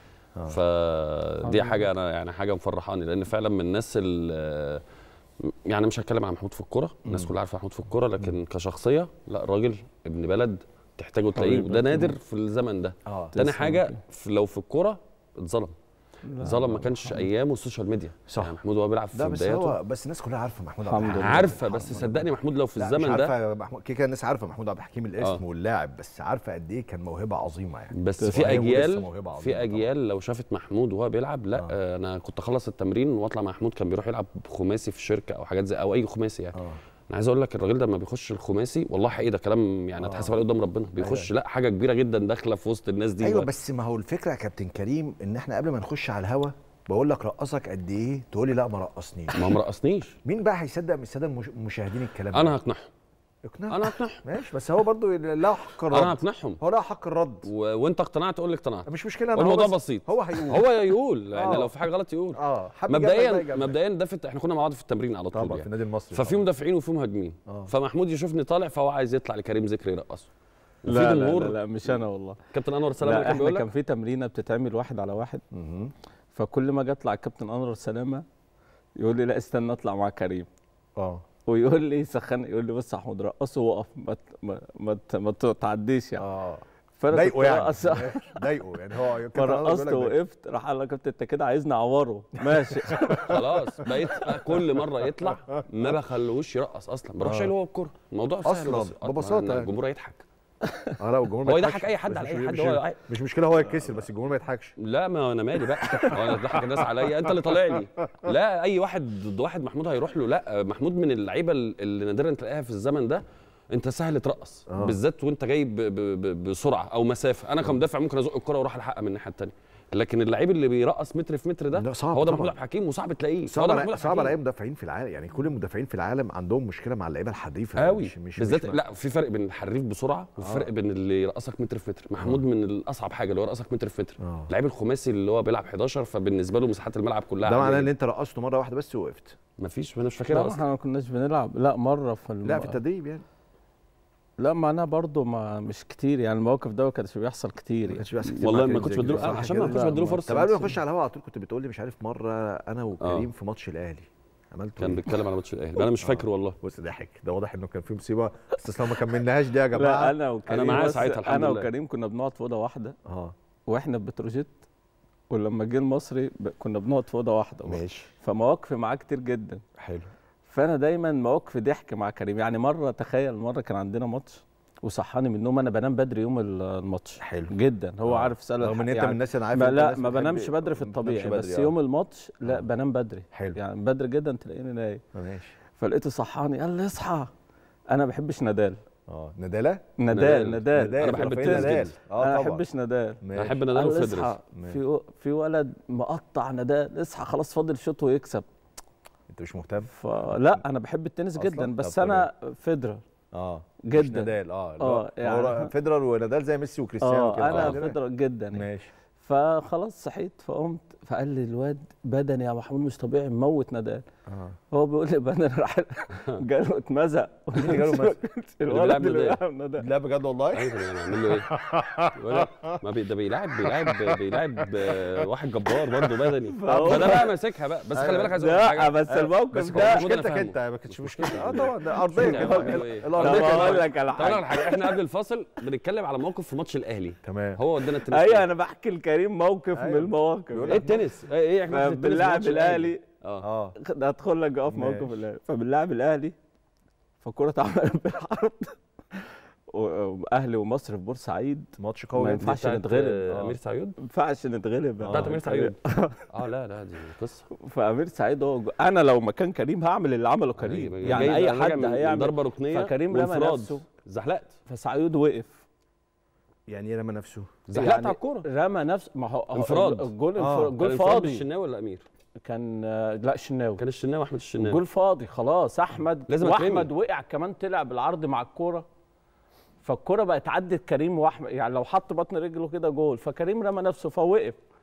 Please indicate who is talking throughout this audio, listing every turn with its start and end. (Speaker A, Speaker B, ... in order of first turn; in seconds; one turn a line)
Speaker A: 0.5-4.8
Speaker B: 1.4-1.9
Speaker A: 5.4-15.7
Speaker C: 7.0-7.3
Speaker B: 11.4-12.1
Speaker C: 13.1-13.4
Speaker B: 13.3-14.0
Speaker B: 16.3-17.3
Speaker A: 16.4-19.8
Speaker C: 18.3-18.6
Speaker C: 19.1-29.9
Speaker B: 20.8-21.6
Speaker A: 21.1-23.3
Speaker A: 25.2-25.4
Speaker A: 27.9-43.5
Speaker B: 28.2-28.8
Speaker C: 40.0-40.3
Speaker C: 41.0-41.3
Speaker C: 43.2-49.5
Speaker A: 49.3-50.2
Speaker C: 50.2-52.5
Speaker A: 52.3-52.9
Speaker C: 53.5-57.5
Speaker A: 53.7-54.2
Speaker A: 55.9-56.6
Speaker A: 57.4-70.3
Speaker C: 58.9-60.6
Speaker C: 61.3-61.7
Speaker C: 62.3-63.8
Speaker C: 65.3-66.4
Speaker A: 70.8-72.0
Speaker B: 70.8-72.4
Speaker A: 72.5-73.7
Speaker B: 73.0-75.4
Speaker C: 75.5-75.9
Speaker B: 76.3-78.2
Speaker B: 79.0-80.5
Speaker C: 81.0-81.2
Speaker B: 81.5-86.2
Speaker C: 86.2-90.2
Speaker B: 87.0-88.4
Speaker B: 89.1-93.4
Speaker C: 92.6-93.3
Speaker A: 93.2-100.2
Speaker C: 97.2-97.5
Speaker C: 98.4-99.7
Speaker B: 100.6-100.9
Speaker C: 101.0-104.7
Speaker A: 101.4-103.0
Speaker A: 104.8-124.4
Speaker B: 105.9-106.2
Speaker C: 105.9-106.8
Speaker C: 114.7-115.0
Speaker C: 121.7-122.5
Speaker C: 123.5-128.8
Speaker A: 127.8-137.9
Speaker C: 130.4-130.7
Speaker C: 134.2-134.5
Speaker C: 137.4-139.3
Speaker A: 139.6-140.6
Speaker B: 140.3-142.8
Speaker C: 142.4-143.2
Speaker B: 144.4-148.1
Speaker C: 147.9-155.1
Speaker A: 148.3-150.5
Speaker B: 149.0-150.8
Speaker A: 153.0-153.3
Speaker A: 154.8-156.6
Speaker C: 156.0-160.1
Speaker B: 159.7-163.0
Speaker A: 160.5-161.7
Speaker C: 163.1-163.3
Speaker B: 163.7-164.6
Speaker B: 165.3-169.6
Speaker C: 167.7-168.1
Speaker C: 169.8-170.1
Speaker B: 170.4-185.0
Speaker C: 177.2-177.5
Speaker C: 178.0-181.7
Speaker C: 183.3-183.6
Speaker C: 185.1-185.6
Speaker B: 185.8-187.3
Speaker B: 187.9-188.8
Speaker C: 189.1-189.9
Speaker B: 190.0-198.4
Speaker A: 190.1-191.9
Speaker C: 190.7-192.6
Speaker C: 193.2-193.6
Speaker A: 193.3-194.3
Speaker C: 199.3-199.9
Speaker B: 199.9-203.0
Speaker C: 201.3-202.3
Speaker C: 203.3-208.0
Speaker B: 203.9-205.7
Speaker B: 207.0-208.7
Speaker A: 207.4-207.8
Speaker C: 208.5-208.9
Speaker B: 209.2-214.0
Speaker C: 214.3-214.6
Speaker B: 214.7-219.9
Speaker C: 217.6-218.2
Speaker A: 218.7-219.4
Speaker C: 219.8-222.8
Speaker A: 220.5-221.5
Speaker A: 222.1-228.9
Speaker C: 223.8-224.2
Speaker B: 226.5-227.3
Speaker C: 226.7-227.2
Speaker C: 227.9-228.4
Speaker B: 228.3-230.0
Speaker C: 229.1-233.9
Speaker A: 229.7-238.4
Speaker B: 231.5-234.9
Speaker C: 237.2-237.6
Speaker B: 237.8-241.0
Speaker C: 239.7-241.0
Speaker A: 240.7-243.4
Speaker B: 241.7-243.0
Speaker C: 243.4-243.8
Speaker B: 243.8-246.3
Speaker C: 244.7-245.2
Speaker B: 247.2-253.5
Speaker C: 251.8-252.5
Speaker A: 252.4-254.0
Speaker B: 254.0-256.2
Speaker C: 255.0-255.4
Speaker A: 255.1-255.8
Speaker A: 256.3-257.5
Speaker B: 257.6-263.8
Speaker A: 260.6-264.6
Speaker B: 264.7-265.6
Speaker C: 266.7-267.7
Speaker A: 267.7-268.5
Speaker B: 267.7-271.5
Speaker A: 269.5-270.1
Speaker C: 270.4-270.8
Speaker A: 270.7-272.0
Speaker B: 272.4-273.8
Speaker A: 273.8-274.8
Speaker B: 274.6-278.8
Speaker A: 276.3-276.9
Speaker B: 279.8-284.6